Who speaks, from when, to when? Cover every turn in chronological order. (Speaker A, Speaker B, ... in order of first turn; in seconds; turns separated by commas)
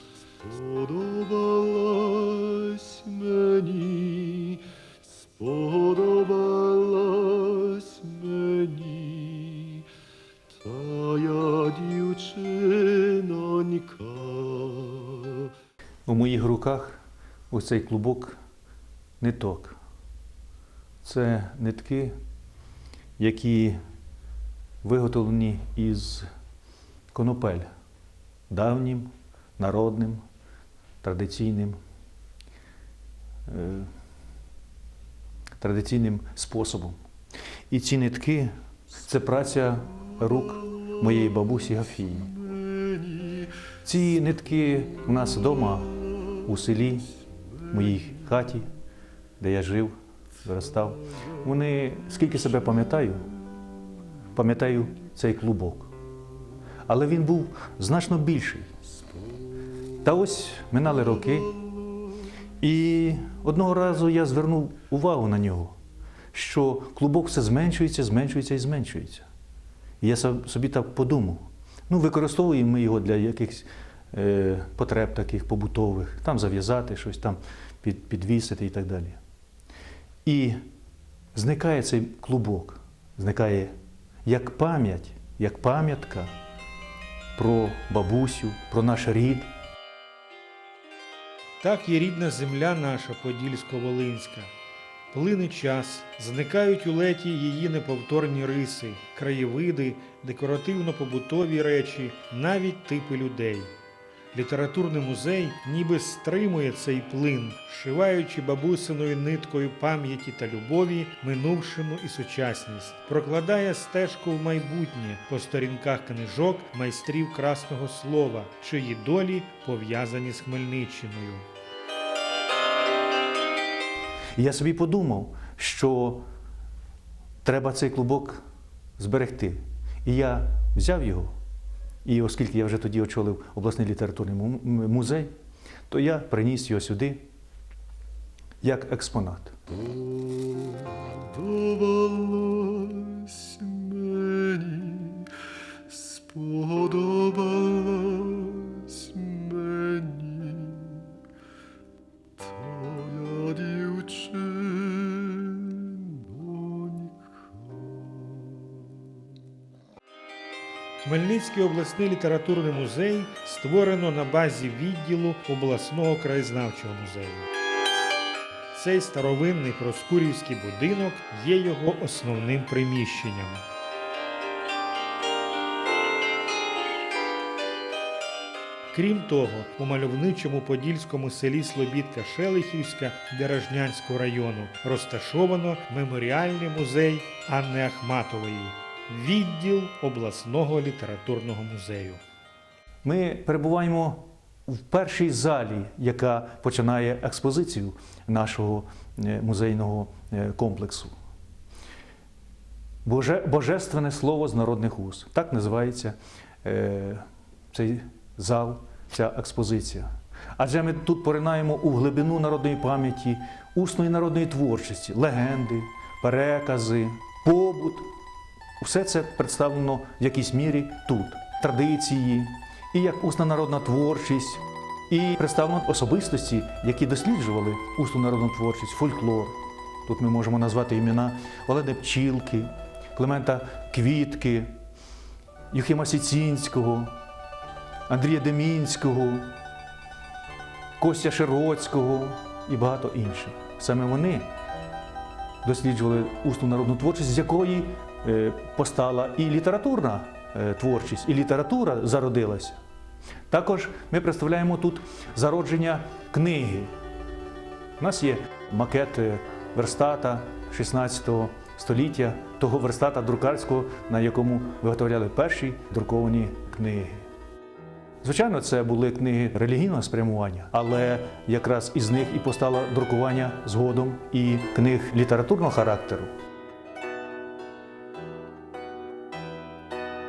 Speaker A: 0.4-9.8, Speaker A: 10.5-15.3, Speaker B: 16.1-18.4, Speaker B: 19.2-19.8, Speaker B: 21.0-22.1, Speaker B: 23.2-23.8, Speaker B: 24.8-26.3, Speaker B: 27.1-27.7, Speaker B: 28.5-30.2, Speaker B: 31.0-31.8, Speaker B: 33.5-33.9, Speaker B: 35.6-37.0, Speaker B: 37.7-38.5, Speaker B: 39.0-42.3, Speaker A: 40.9-41.3, Speaker A: 42.1-43.5, Speaker B: 43.9-45.9, Speaker A: 45.4-45.6, Speaker B: 46.5-47.1, Speaker B: 47.7-48.7, Speaker A: 47.7-48.2, Speaker B: 49.4-53.2, Speaker A: 50.8-51.3, Speaker B: 54.3-55.9, Speaker B: 56.9-58.7, Speaker A: 59.0-59.4, Speaker B: 60.0-61.5, Speaker A: 61.2-61.6, Speaker B: 62.6-65.7, Speaker B: 66.3-69.2, Speaker B: 70.0-79.2, Speaker B: 80.2-80.6, Speaker B: 81.3-86.3, Speaker B: 87.3-89.5, Speaker C: 91.6-94.5, Speaker C: 95.1-103.7, Speaker C: 104.3-121.5, Speaker B: 124.3-126.2, Speaker B: 127.4-128.4, Speaker B: 129.0-131.3, Speaker B: 132.0-135.3, Speaker B: 135.9-137.2, Speaker B: 138.6-139.5, Speaker A: 139.7-145.3, Speaker A: 145.9-151.0, Speaker A: 152.4-158.7, Speaker C: 161.0-167.5, Speaker C: 168.7-173.6, Speaker C: 178.9-192.2, Speaker B: 193.0-201.1, Speaker B: 203.0-218.1, Speaker B: 218.8-234.7, Speaker B: 235.7-237.1, Speaker B: 238.1-239.5, Speaker B: 241.0-244.5, Speaker B: 245.6-252.8, Speaker B: 253.5-256.9, Speaker B: 258.0-267.2, Speaker B: 268.2-276.3